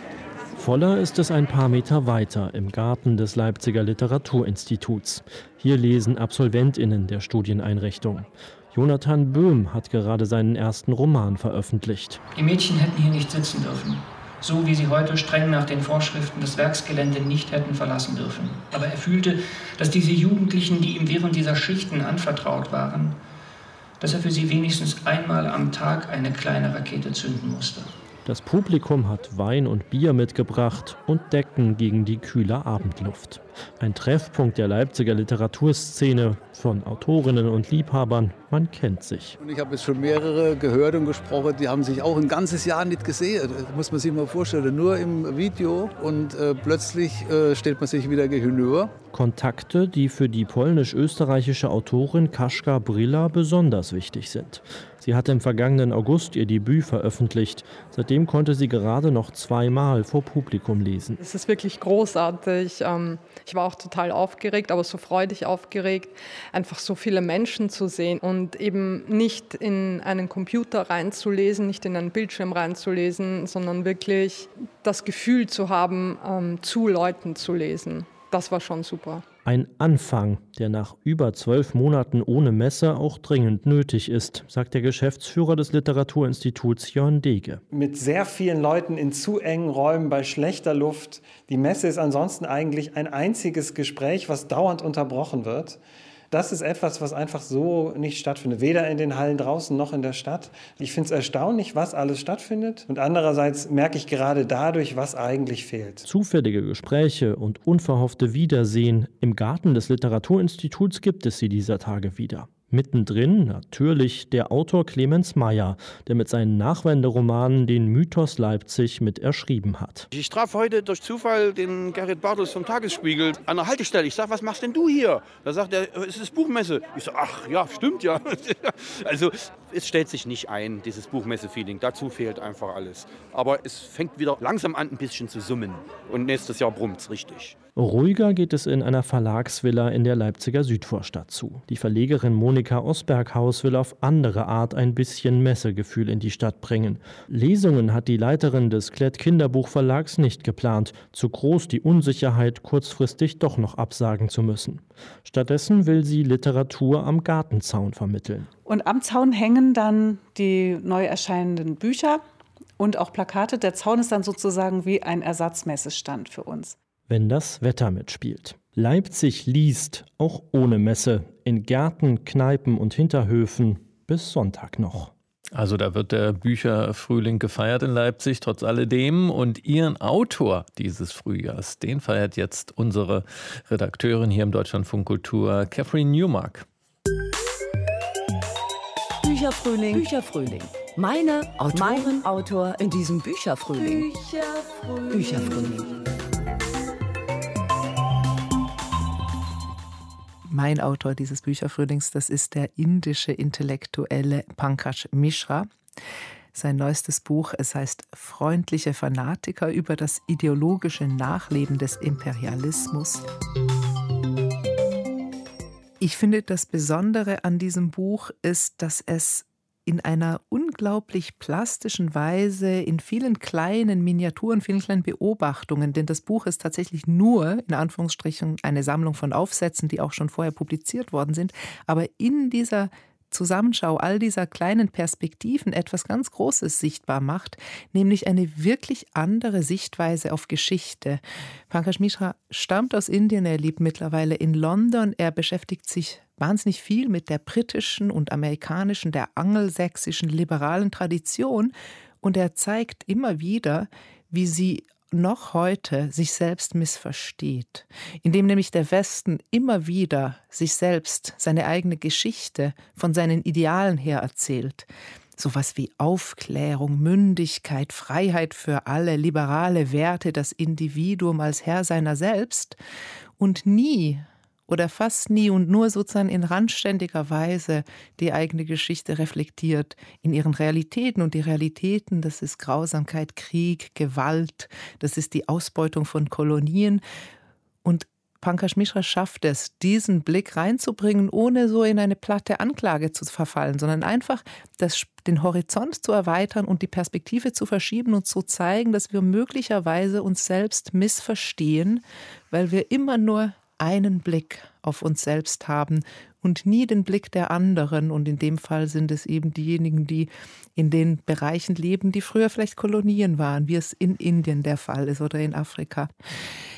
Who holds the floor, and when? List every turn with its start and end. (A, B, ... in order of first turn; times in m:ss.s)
0:00.6-0:12.2 A
0:12.3-0:23.2 B
0:24.0-0:27.9 B
0:28.2-0:39.4 A
0:39.4-0:48.9 C
0:49.1-1:01.2 A
1:01.2-1:19.2 D
1:19.4-1:27.6 A
1:27.7-1:35.8 E
1:36.3-1:46.0 E
1:46.0-2:00.1 A
2:00.1-2:17.6 F
2:17.8-2:38.5 A
2:38.6-2:42.2 G
2:42.8-2:46.8 G
2:47.1-2:55.1 A
2:55.5-3:06.6 H
3:09.2-3:15.9 I
3:20.5-3:25.7 J
3:26.5-3:33.2 J
3:36.0-4:32.8 J
4:33.4-4:47.0 J
4:47.8-5:16.1 J